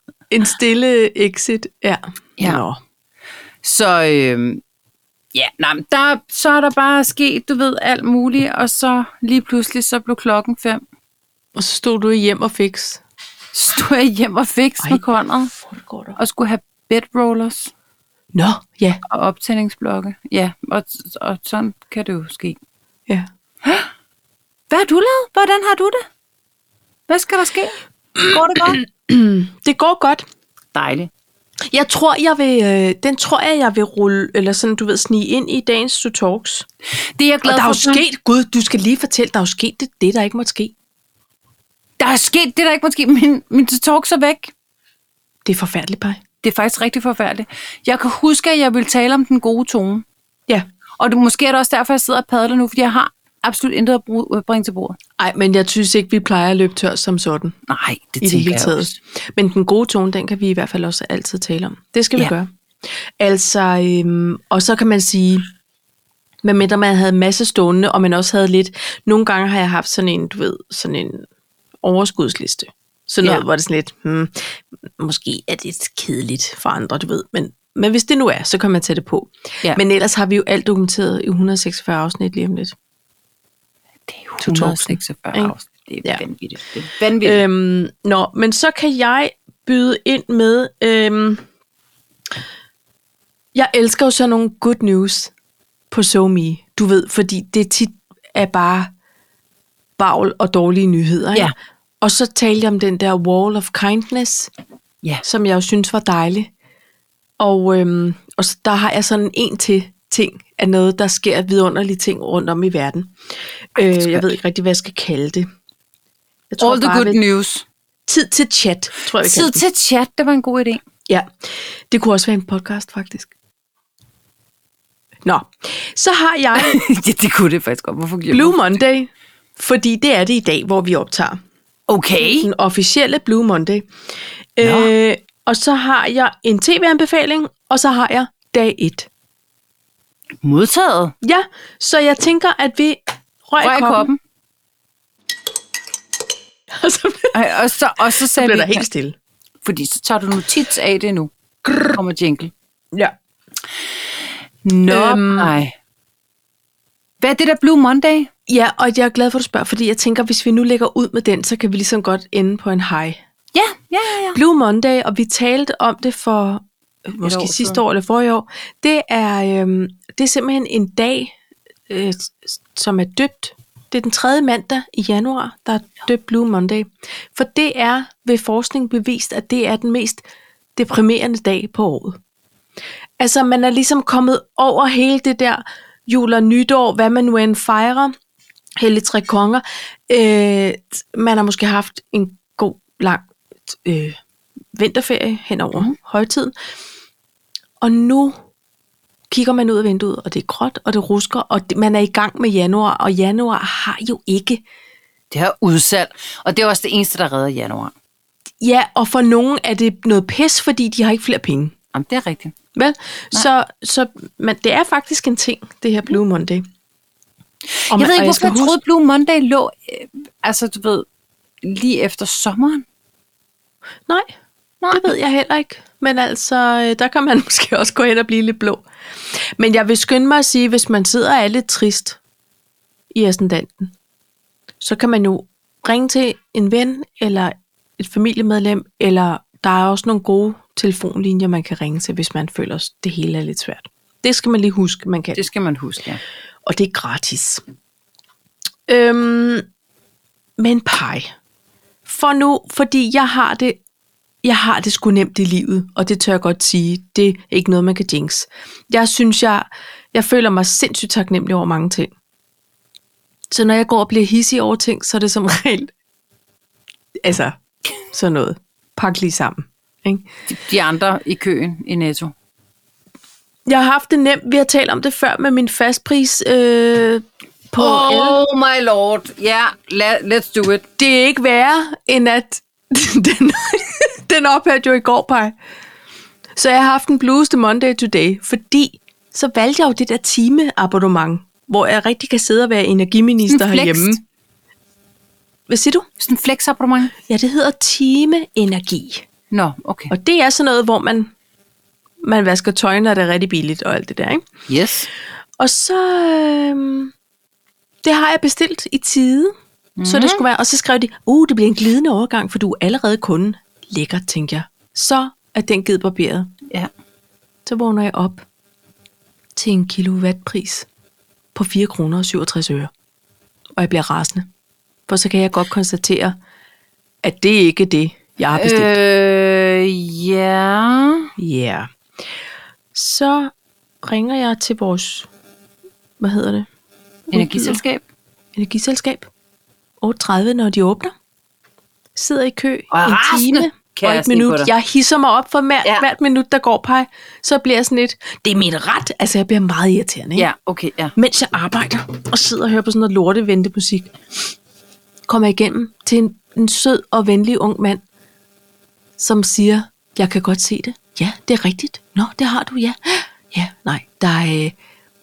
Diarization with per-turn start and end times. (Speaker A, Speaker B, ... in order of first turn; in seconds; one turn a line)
Speaker A: 0.3-2.8
Speaker B: 2.4-2.6
Speaker B: 3.6-4.6
Speaker B: 5.3-10.8
Speaker A: 11.6-13.0
Speaker B: 13.5-15.6
Speaker A: 15.6-16.2
Speaker B: 16.1-17.7
Speaker A: 18.3-19.0
Speaker B: 19.1-22.6
Speaker B: 23.6-23.9
Speaker B: 24.7-26.1
Speaker B: 27.1-28.8
Speaker A: 28.2-30.2
Speaker B: 30.7-31.1
Speaker A: 31.7-36.7
Speaker B: 37.2-38.0
Speaker A: 37.5-40.7
Speaker B: 42.0-44.5
Speaker A: 45.4-46.2
Speaker B: 46.4-50.0
Speaker B: 51.0-55.0
Speaker A: 55.2-57.5
Speaker B: 57.7-59.0
Speaker A: 58.2-62.5
Speaker A: 63.2-65.5
Speaker A: 66.4-71.2
Speaker A: 71.8-82.8
Speaker B: 84.1-87.4
Speaker A: 84.4-85.5
Speaker A: 87.2-91.4
Speaker A: 93.5-95.3
Speaker A: 95.9-98.9
Speaker A: 100.0-101.5
Speaker A: 102.0-104.5
Speaker A: 105.2-106.5
Speaker A: 107.4-113.1
Speaker A: 113.8-115.5
Speaker B: 113.8-114.3
Speaker A: 116.5-117.2
Speaker B: 116.6-117.7
Speaker A: 118.1-119.6
Speaker B: 119.2-120.8
Speaker A: 121.1-123.3
Speaker A: 125.2-126.8
Speaker B: 126.6-128.7
Speaker A: 128.3-131.4
Speaker B: 131.9-132.5
Speaker A: 132.2-133.9
Speaker A: 134.6-139.1
Speaker B: 134.6-134.9
Speaker B: 140.4-141.1
Speaker A: 141.2-144.1
Speaker B: 143.6-144.2
Speaker A: 146.7-147.4
Speaker B: 147.3-148.8
Speaker A: 148.2-149.2
Speaker B: 149.6-152.5
Speaker B: 154.6-155.7
Speaker A: 154.9-155.5
Speaker B: 157.2-158.3
Speaker A: 158.5-163.2
Speaker B: 163.5-164.4
Speaker A: 164.3-171.3
Speaker B: 167.2-167.8
Speaker A: 171.9-180.2
Speaker A: 180.8-182.2
Speaker A: 183.2-188.1
Speaker A: 188.8-194.2
Speaker A: 194.7-196.5
Speaker A: 197.8-198.4
Speaker A: 199.3-204.6
Speaker B: 205.3-207.9
Speaker A: 208.6-211.7
Speaker B: 211.9-212.6
Speaker A: 212.7-216.6
Speaker B: 217.8-221.1
Speaker A: 217.9-218.8
Speaker B: 221.6-222.8
Speaker A: 224.9-232.2
Speaker A: 233.1-233.9
Speaker A: 234.8-245.4
Speaker B: 245.3-246.2
Speaker A: 246.7-247.6
Speaker A: 248.9-249.7
Speaker A: 250.6-251.3
Speaker A: 252.1-253.8
Speaker A: 254.4-262.1
Speaker A: 263.5-265.9
Speaker A: 267.2-270.3
Speaker B: 270.5-272.3
Speaker A: 273.7-278.4
Speaker B: 277.8-280.9
Speaker A: 281.0-285.6
Speaker A: 286.6-294.2
Speaker B: 293.5-294.2
Speaker A: 295.7-296.1
Speaker B: 296.2-297.1
Speaker A: 297.2-299.2
Speaker B: 299.5-300.1
Speaker A: 300.1-301.3
Speaker A: 302.2-304.4
Speaker B: 304.7-305.1
Speaker A: 305.6-307.1
Speaker A: 308.0-309.5
Speaker B: 310.0-310.4
Speaker A: 310.1-316.5
Speaker A: 317.7-318.4
Speaker A: 319.6-320.9
Speaker A: 321.6-322.9
Speaker A: 323.8-324.5
Speaker A: 325.1-326.4
Speaker A: 327.2-328.9
Speaker B: 328.5-331.3
Speaker A: 331.4-331.9
Speaker A: 332.9-335.3
Speaker A: 336.2-336.7
Speaker B: 337.3-338.0
Speaker A: 337.3-337.8
Speaker A: 338.6-339.3
Speaker A: 340.0-341.1
Speaker A: 342.2-350.5
Speaker B: 342.9-344.7
Speaker B: 350.4-351.1
Speaker A: 351.2-354.1
Speaker A: 355.3-358.0
Speaker A: 359.2-364.8